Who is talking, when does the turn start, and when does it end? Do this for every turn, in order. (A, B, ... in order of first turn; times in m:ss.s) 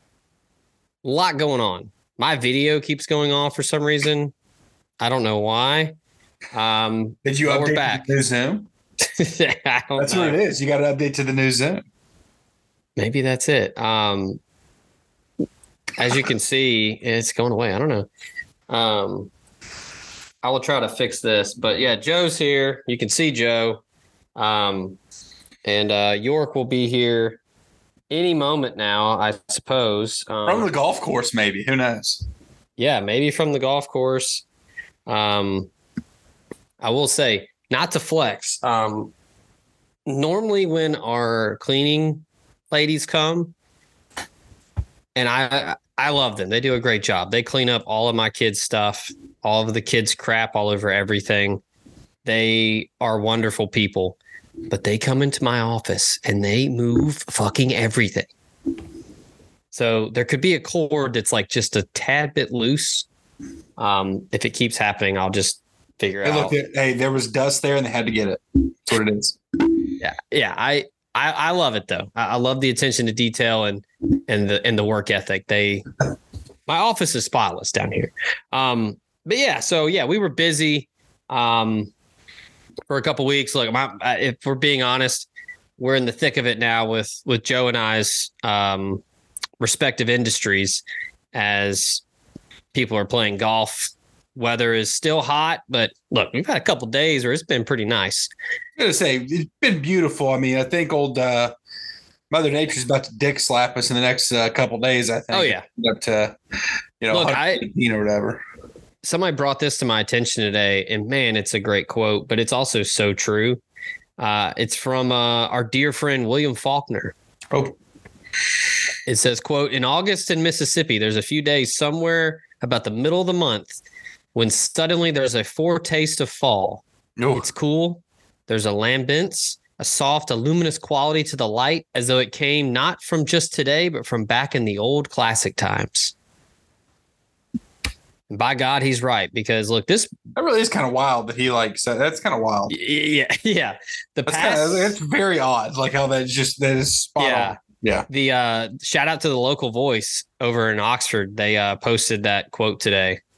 0:01.0-0:04.3 A
0:05.0-0:05.9 A
0:06.5-0:08.1 A
0:07.2-0:08.7 B
0:09.0-0:10.4 A
0:10.0-0:11.8 B
0:13.0-0:14.4 A
0:16.0-0:18.1 A
0:18.7-0:19.3 A
0:20.4-0:23.8 A
0:24.4-0:25.0 A
0:25.6-0:27.4 A
0:28.1-0:30.7 A
0:30.4-0:32.2 B
0:32.8-0:34.4 A
0:35.1-0:35.7 A
0:36.8-0:39.1 A
0:40.0-0:43.5 A
0:45.2-0:51.6 A
0:52.2-0:54.2 A
0:54.7-0:58.3 A
0:59.7-1:03.1 A
1:03.8-1:06.5 A
1:06.2-1:09.4 B
1:10.0-1:15.8 A
1:16.7-1:21.9 A
1:22.9-1:29.0 A
1:29.6-1:32.0 A
1:32.7-1:38.3 A
1:38.8-1:41.5 B
1:42.3-1:46.4 B
1:45.3-1:45.6 A
1:47.0-1:48.4 B
1:47.1-1:47.7 A
1:49.0-1:53.6 A
1:54.2-1:57.1 A
1:59.0-2:03.8 A
2:04.3-2:16.1 A
2:07.2-2:07.5 B
2:18.3-2:20.2 A
2:20.3-2:22.7 B
2:22.7-2:25.0 A
2:24.2-2:28.1 B
2:27.2-2:33.2 A